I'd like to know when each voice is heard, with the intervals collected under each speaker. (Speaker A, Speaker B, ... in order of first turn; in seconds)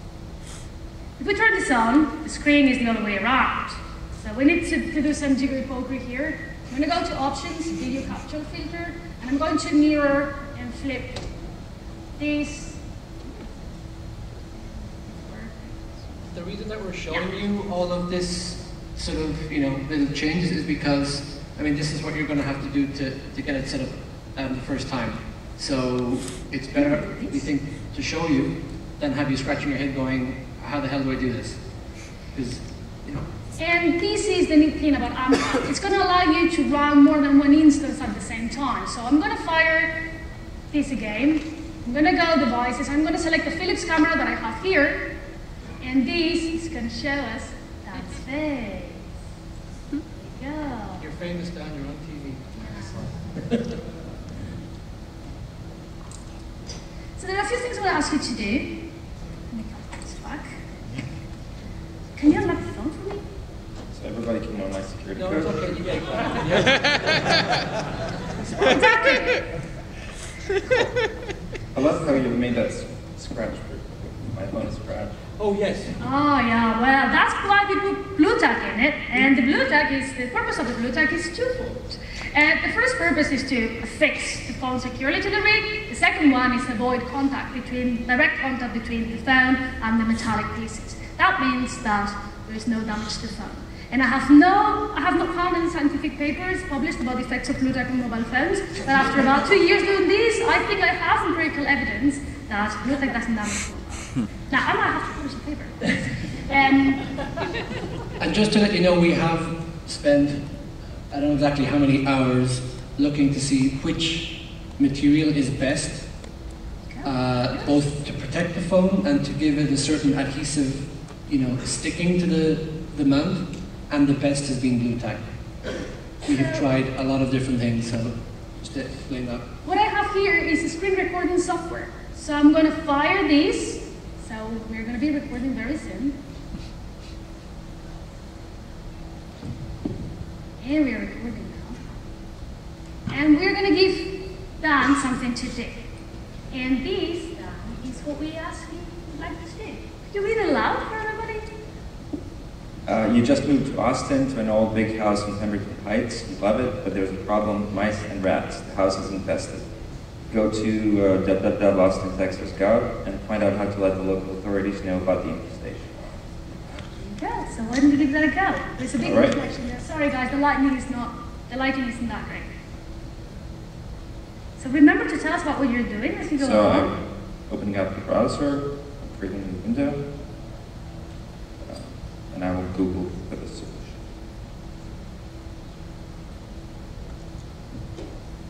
Speaker A: 1.2-11.2, 12.2-12.8, 14.8-16.0, 26.7-27.4, 33.6-39.9, 40.7-45.0, 45.8-49.1, 50.2-51.0, 52.5-53.4, 57.2-58.8, 59.5-60.6, 62.2-63.2, 68.5-69.5, 76.0-107.1, 116.9-117.7, 126.2-126.7, 129.6-136.2, 140.6-142.0, 143.1-145.9, 146.5-151.5, 167.0-172.5, 174.6-176.9
Speaker B: 16.3-31.6, 32.3-33.3, 51.0-52.5, 65.2-67.6, 75.4-76.0, 108.2-110.5, 111.1-116.1, 117.0-125.2, 126.2-129.5
Speaker C: 63.9-65.7, 71.7-75.2, 152.9-159.7, 160.3-166.1, 169.0-169.3, 176.4-180.0, 181.6-184.0